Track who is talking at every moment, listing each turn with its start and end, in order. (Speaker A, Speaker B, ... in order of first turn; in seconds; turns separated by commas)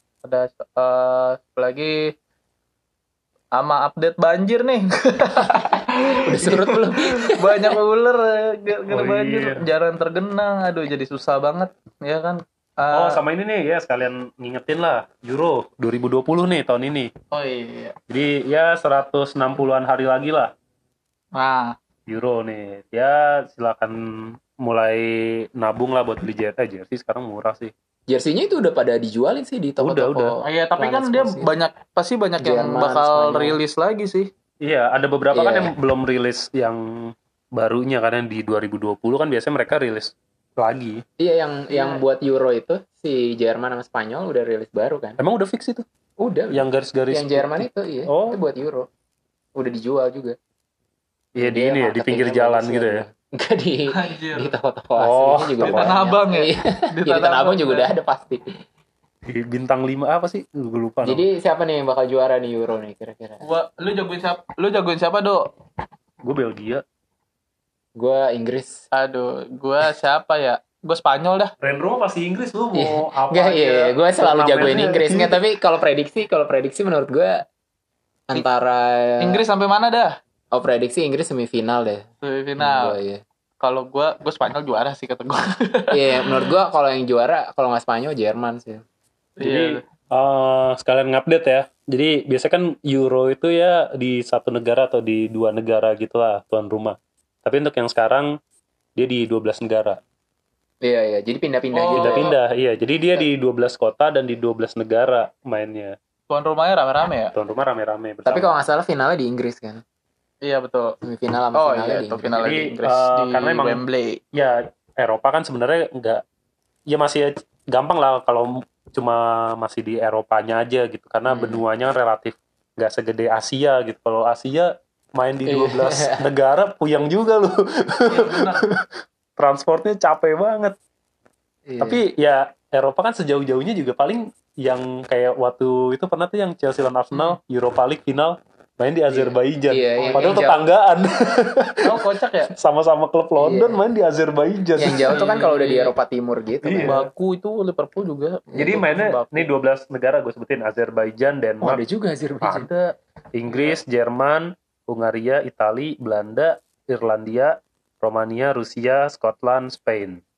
Speaker A: 0.2-2.1, Speaker A: 3.5-13.2, Speaker B: 6.2-7.8, Speaker C: 8.9-9.6, Speaker C: 12.9-17.1, Speaker A: 17.3-17.9, Speaker C: 18.1-20.5, Speaker A: 21.4-21.7, Speaker C: 22.1-27.7, Speaker B: 28.1-30.2, Speaker C: 29.8-30.4, Speaker A: 30.1-34.3, Speaker B: 30.8-31.5, Speaker B: 32.4-33.6, Speaker C: 34.6-41.0, Speaker B: 35.3-35.7, Speaker B: 41.2-45.2, Speaker A: 41.7-42.0, Speaker C: 45.2-45.8, Speaker B: 46.2-48.9, Speaker C: 46.5-48.4, Speaker B: 49.5-50.4, Speaker C: 51.4-53.0, Speaker B: 51.4-58.6, Speaker A: 53.9-54.5, Speaker C: 55.0-55.9, Speaker A: 55.6-57.9, Speaker C: 59.3-61.2, Speaker B: 61.0-63.4, Speaker A: 63.4-65.5, Speaker C: 66.2-66.8, Speaker B: 68.0-68.9, Speaker A: 68.9-71.5, Speaker C: 71.6-75.4, Speaker B: 72.7-77.4, Speaker B: 78.3-79.4, Speaker A: 79.2-80.1, Speaker B: 80.5-82.0, Speaker A: 82.2-83.0, Speaker B: 82.6-83.2, Speaker A: 83.6-86.3, Speaker B: 85.9-88.8, Speaker A: 89.4-89.8, Speaker C: 89.4-98.3, Speaker C: 99.0-100.0, Speaker B: 100.8-102.3, Speaker A: 101.7-102.3, Speaker C: 102.0-105.9, Speaker A: 106.3-107.3, Speaker C: 107.3-108.6, Speaker B: 108.2-109.8, Speaker A: 110.4-110.9, Speaker B: 111.0-112.3, Speaker A: 111.5-114.2, Speaker C: 112.3-113.8, Speaker C: 114.3-116.2, Speaker C: 116.9-128.8, Speaker B: 121.3-121.6, Speaker B: 125.5-126.2, Speaker A: 128.1-128.6, Speaker C: 129.4-130.7, Speaker B: 131.7-132.0, Speaker C: 131.8-141.8, Speaker A: 137.1-137.4, Speaker B: 139.1-140.6, Speaker A: 140.0-140.3, Speaker A: 141.8-142.5, Speaker C: 142.5-145.1, Speaker B: 143.4-143.8, Speaker B: 144.8-146.9, Speaker A: 145.1-145.9, Speaker C: 146.6-147.1, Speaker A: 146.8-149.5, Speaker B: 148.5-148.8, Speaker C: 148.5-151.8, Speaker B: 151.6-152.7, Speaker C: 152.4-160.2, Speaker A: 153.5-153.8